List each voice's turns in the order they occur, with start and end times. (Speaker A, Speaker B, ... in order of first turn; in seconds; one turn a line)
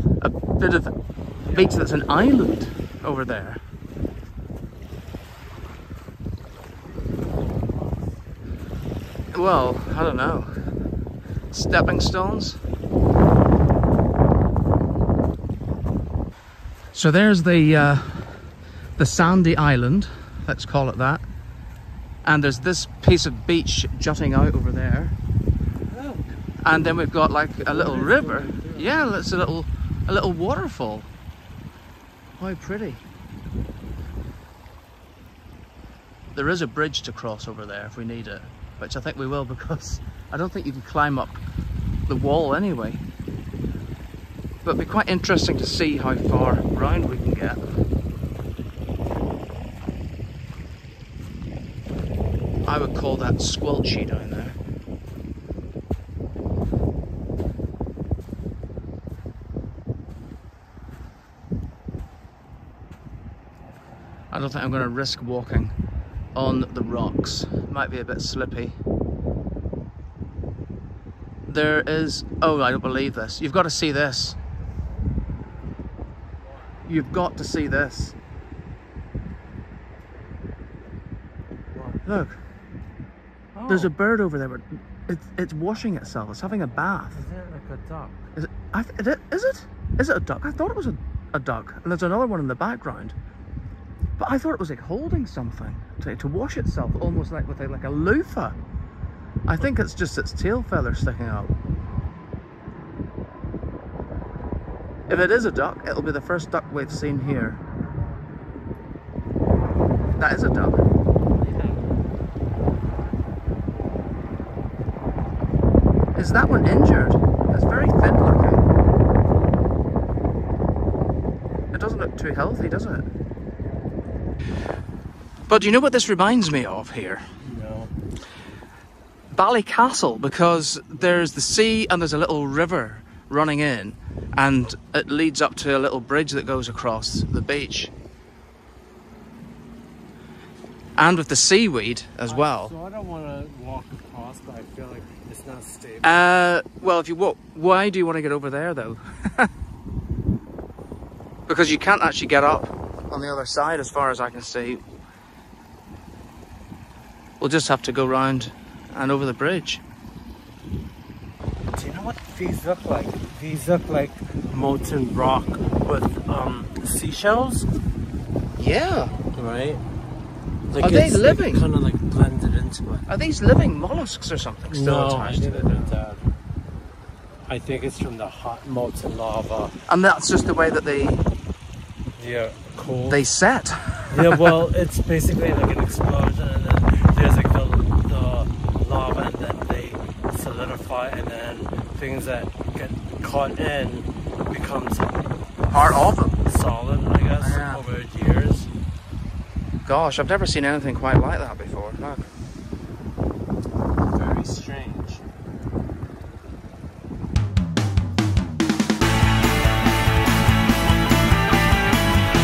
Speaker A: 0.2-0.9
Speaker A: 1.5-3.6
Speaker A: 9.3-10.5
Speaker A: 11.5-12.6
Speaker A: 16.9-18.4
Speaker A: 19.0-21.2
Speaker A: 22.2-25.2
Speaker B: 25.9-26.2
Speaker A: 26.6-31.1
Speaker B: 27.6-29.1
Speaker A: 32.4-33.0
Speaker A: 36.3-41.4
Speaker A: 42.1-43.0
Speaker A: 44.6-47.6
Speaker A: 52.6-54.6
Speaker A: 64.3-65.7
Speaker A: 66.3-68.8
Speaker A: 71.5-74.4
Speaker A: 76.9-78.2
Speaker B: 81.7-82.0
Speaker A: 82.1-82.4
Speaker B: 83.5-83.9
Speaker A: 83.7-87.2
Speaker B: 87.1-88.2
Speaker A: 88.3-93.2
Speaker A: 94.2-98.6
Speaker A: 99.5-101.5
Speaker A: 105.1-107.6
Speaker A: 110.2-110.9
Speaker B: 111.4-111.8
Speaker A: 116.2-118.7
Speaker A: 121.7-123.1
Speaker A: 125.5-127.3
Speaker B: 127.4-127.9
Speaker A: 129.3-137.9
Speaker A: 141.0-142.7
Speaker B: 142.3-146.2
Speaker A: 146.0-149.5
Speaker A: 151.5-154.8
Speaker A: 157.4-159.8
Speaker B: 161.8-167.7
Speaker A: 168.6-169.2
Speaker B: 169.3-169.8
Speaker B: 170.7-173.1
Speaker A: 170.8-171.7
Speaker A: 173.1-175.9
Speaker B: 174.7-176.2
Speaker B: 177.5-179.8
Speaker A: 179.9-181.2
Speaker B: 182.2-183.2
Speaker A: 183.1-184.6
Speaker B: 184.1-195.3
Speaker A: 195.7-196.4
Speaker B: 196.4-198.7
Speaker A: 197.4-197.8
Speaker A: 199.8-202.3
Speaker B: 204.1-205.2